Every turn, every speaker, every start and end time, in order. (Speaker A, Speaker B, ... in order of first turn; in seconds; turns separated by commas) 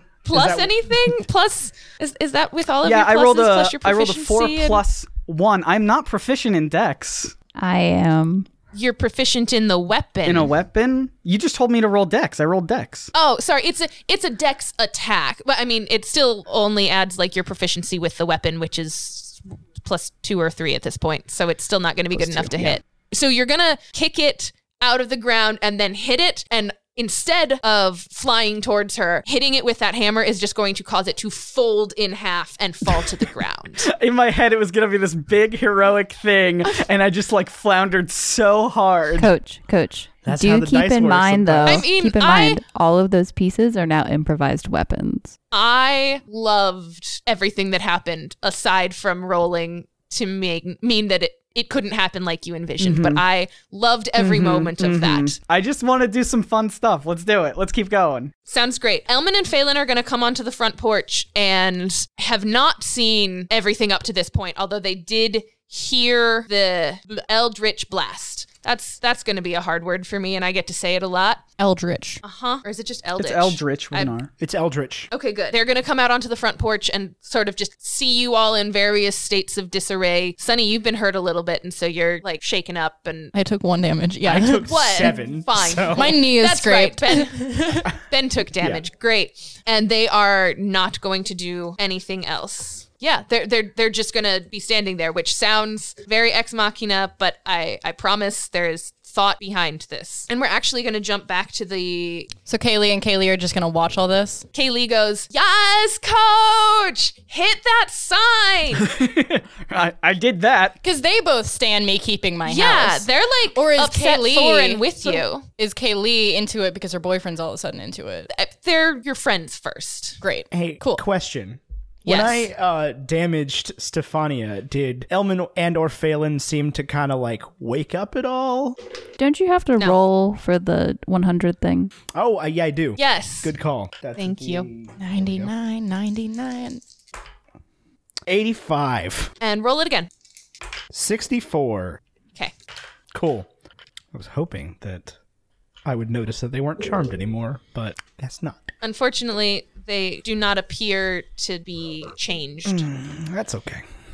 Speaker A: 0.2-4.8, Speaker B: 0.3-0.9, Speaker C: 2.8-7.3, Speaker D: 7.6-8.5, Speaker A: 8.7-10.5, Speaker C: 10.3-13.1, Speaker A: 13.1-33.9, Speaker B: 22.1-22.8, Speaker C: 33.8-39.3, Speaker D: 39.2-45.4, Speaker B: 40.2-41.9, Speaker A: 41.6-42.6, Speaker A: 45.5-55.4, Speaker C: 52.8-53.2, Speaker C: 54.2-58.3, Speaker A: 58.5-71.4, Speaker E: 71.6-72.2, Speaker A: 72.2-74.2, Speaker C: 73.2-74.3, Speaker B: 74.4-75.1, Speaker A: 75.1-83.3, Speaker E: 83.3-85.1, Speaker B: 84.2-86.2, Speaker A: 84.6-102.3, Speaker E: 85.9-87.8, Speaker E: 102.5-104.5, Speaker A: 104.5-108.9, Speaker C: 108.8-110.8, Speaker E: 110.8-118.3, Speaker A: 112.5-115.4, Speaker A: 118.3-120.2, Speaker E: 120.2-121.0, Speaker B: 120.5-128.8, Speaker A: 122.0-122.5, Speaker D: 129.2-131.9, Speaker B: 132.1-135.5, Speaker A: 133.0-133.5, Speaker A: 134.2-134.7, Speaker E: 135.0-136.8, Speaker B: 138.3-139.3, Speaker A: 139.4-140.1, Speaker B: 140.9-142.0, Speaker B: 143.1-143.5, Speaker B: 144.1-145.2, Speaker B: 145.8-148.7, Speaker A: 148.8-152.8, Speaker B: 152.7-153.8